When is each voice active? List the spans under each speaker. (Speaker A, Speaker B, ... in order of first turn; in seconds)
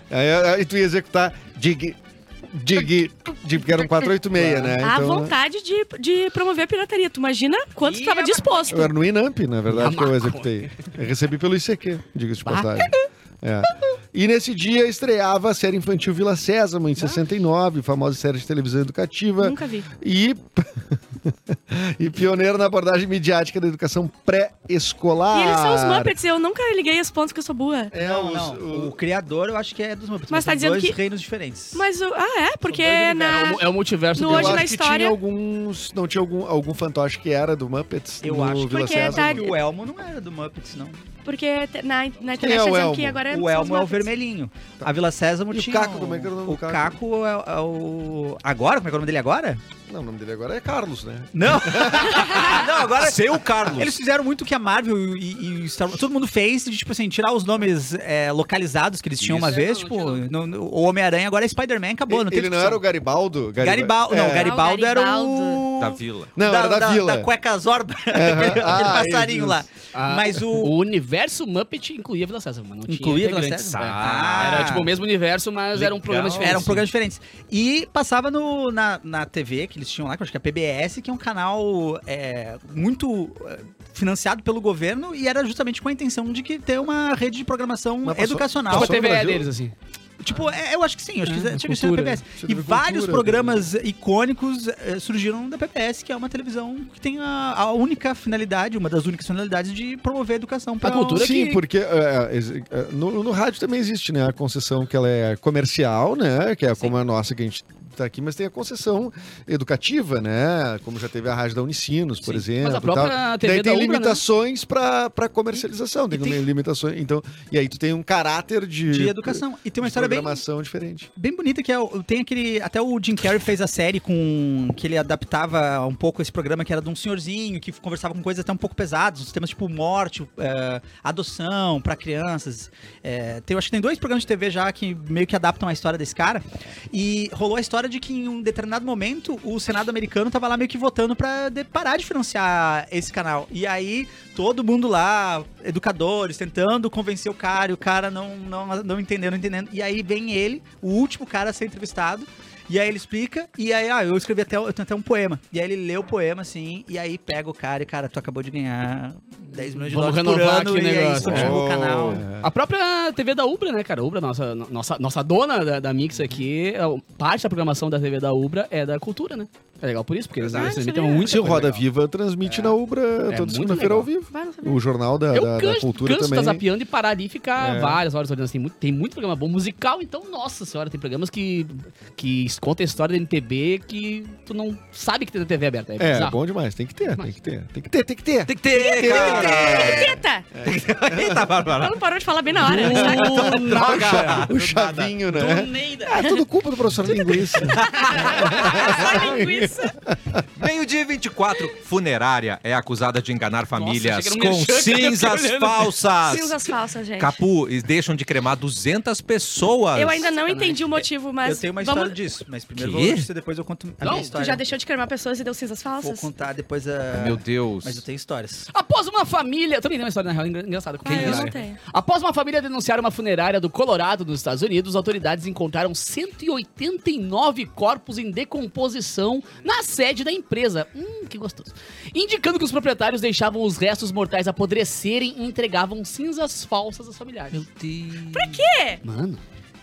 Speaker A: 0.1-5.3, 8.7-26.1, 27.9-28.9, 34.2-39.4, 42.4-43.2, 45.5-47.0, 49.9-52.3, 62.1-64.6, 66.3-67.3, 68.1-69.6, 88.0-89.5, 92.4-93.6, 101.1-121.1, 161.2-162.5, 171.2-176.6, 177.6-178.0, 186.0-191.5, 192.7-200.1
Speaker B: 4.3-4.8, 9.7-10.7, 33.3-34.7, 59.2-60.3, 69.9-76.8, 88.7-89.7, 91.3-92.2, 100.8-101.6, 112.2-114.2, 159.7-161.7, 162.2-171.8, 172.4-172.7, 173.3-174.1, 175.3-186.4, 192.6-194.5, 195.3-196.2, 203.7-206.0, 210.3-211.0, 214.0-214.3, 218.7-237.6, 239.0-239.4
Speaker C: 4.8-8.9, 19.4-19.9, 25.3-27.9, 30.3-31.0, 31.7-33.6, 34.1-35.1, 38.7-39.5, 41.2-44.1, 64.3-65.7, 170.6-171.4, 174.3-174.8, 188.8-190.5, 191.8-193.5, 197.7-199.9, 206.2-207.4, 209.9-212.2, 214.1-216.3, 221.0-221.8, 238.3-239.0
Speaker D: 7.8-8.7, 27.9-31.9, 32.6-33.6, 38.2-41.0, 43.3-49.6, 51.3-62.8, 63.6-70.7, 72.9-74.9, 76.4-89.0, 90.2-101.3, 118.9-120.4, 121.2-162.2, 211.4-214.7, 216.0-218.7
Speaker E: 52.9-53.9, 65.8-66.3, 73.7-74.8, 75.7-76.8, 170.4-170.8, 188.4-190.1, 190.6-192.0, 192.7-195.1, 198.0-198.8, 200.6-206.6, 207.2-210.3, 212.8-213.3, 217.1-218.0, 221.1-221.5, 237.5-238.6